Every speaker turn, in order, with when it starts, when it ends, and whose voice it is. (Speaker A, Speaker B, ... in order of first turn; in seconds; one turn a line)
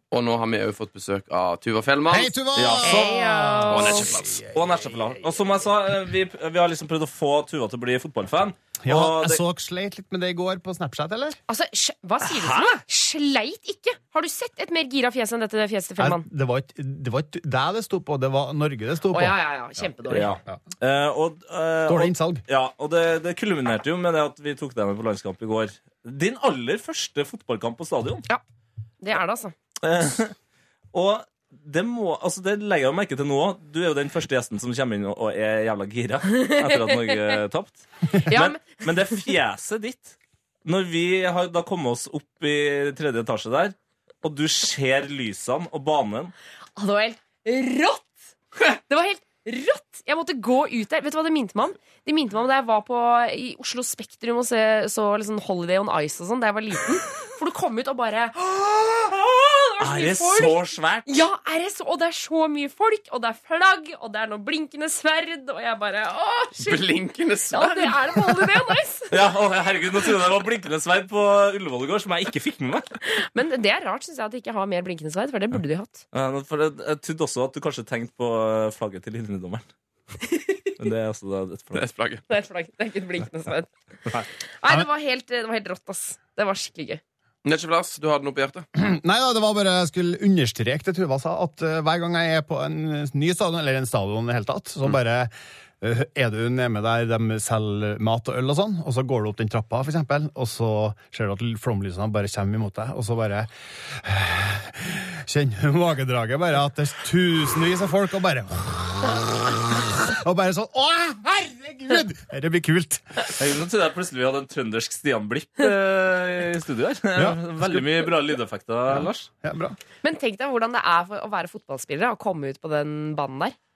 Speaker A: 0.1-2.4
Speaker B: 2.1-3.6
Speaker C: 2.5-3.0
Speaker D: 2.8-4.2
Speaker A: 3.7-4.4
Speaker C: 4.5-9.4
Speaker B: 8.8-11.4
Speaker D: 11.5-16.3
Speaker C: 12.2-12.8
Speaker B: 16.0-19.4
Speaker D: 19.1-20.3
Speaker C: 20.1-28.2
Speaker B: 21.9-22.4
Speaker D: 29.0-29.5
Speaker C: 29.8-30.4
Speaker C: 30.9-46.3
Speaker D: 36.3-37.4
Speaker D: 38.3-39.1
Speaker D: 46.8-48.2
Speaker D: 48.9-66.8
Speaker C: 59.8-61.2
Speaker A: 66.6-68.4
Speaker D: 67.5-69.1
Speaker C: 69.1-72.9
Speaker D: 73.1-76.0
Speaker C: 76.1-79.7
Speaker C: 80.8-81.8
Speaker A: 81.7-82.2
Speaker D: 82.3-83.7
Speaker D: 84.6-87.0
Speaker A: 87.5-88.7
Speaker B: 89.0-95.3
Speaker B: 95.8-103.5
Speaker B: 105.3-108.9
Speaker B: 110.2-113.0
Speaker C: 113.4-119.3
Speaker B: 119.4-119.7
Speaker D: 120.0-123.5